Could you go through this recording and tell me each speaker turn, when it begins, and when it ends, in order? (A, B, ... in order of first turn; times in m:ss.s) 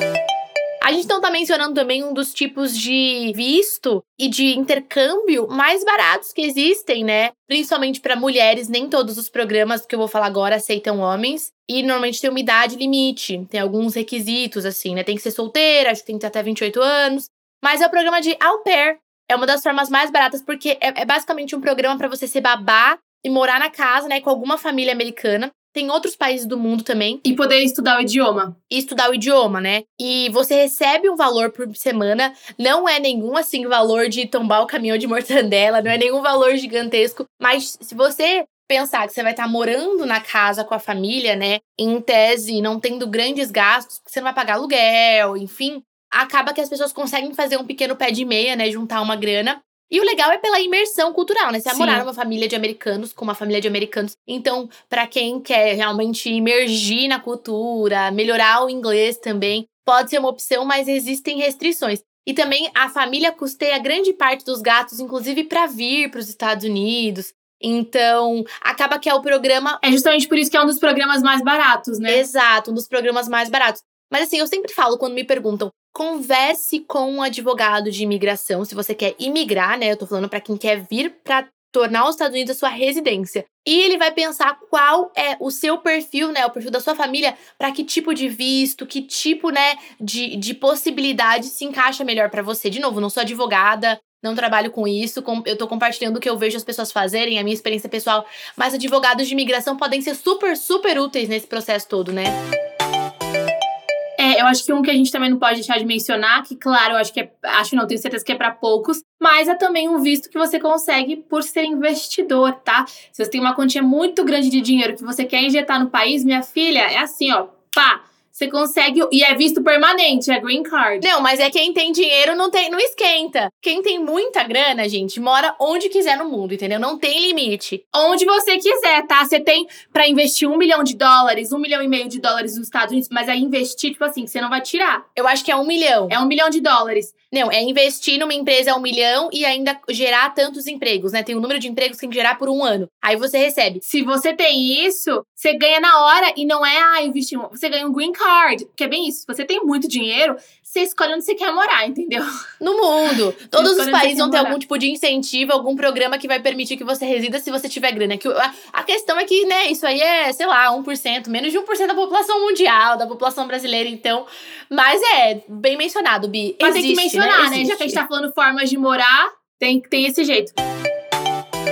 0:00.8-0:27.2 A
0:27.2-0:28.5 B
0:28.7-1:09.8 A
0:51.6-0:52.1 B
1:09.8-1:12.2 B
1:12.1-1:42.4 A
1:44.2-2:01.1 B
2:01.0-2:07.8 A
2:07.9-2:15.0 B
2:15.2-2:16.2 A
2:16.1-2:17.1 B
2:17.3-2:23.8 A
2:23.8-2:32.3 B
2:32.6-2:48.0 A
2:33.0-2:34.6 B
2:46.6-2:50.6 B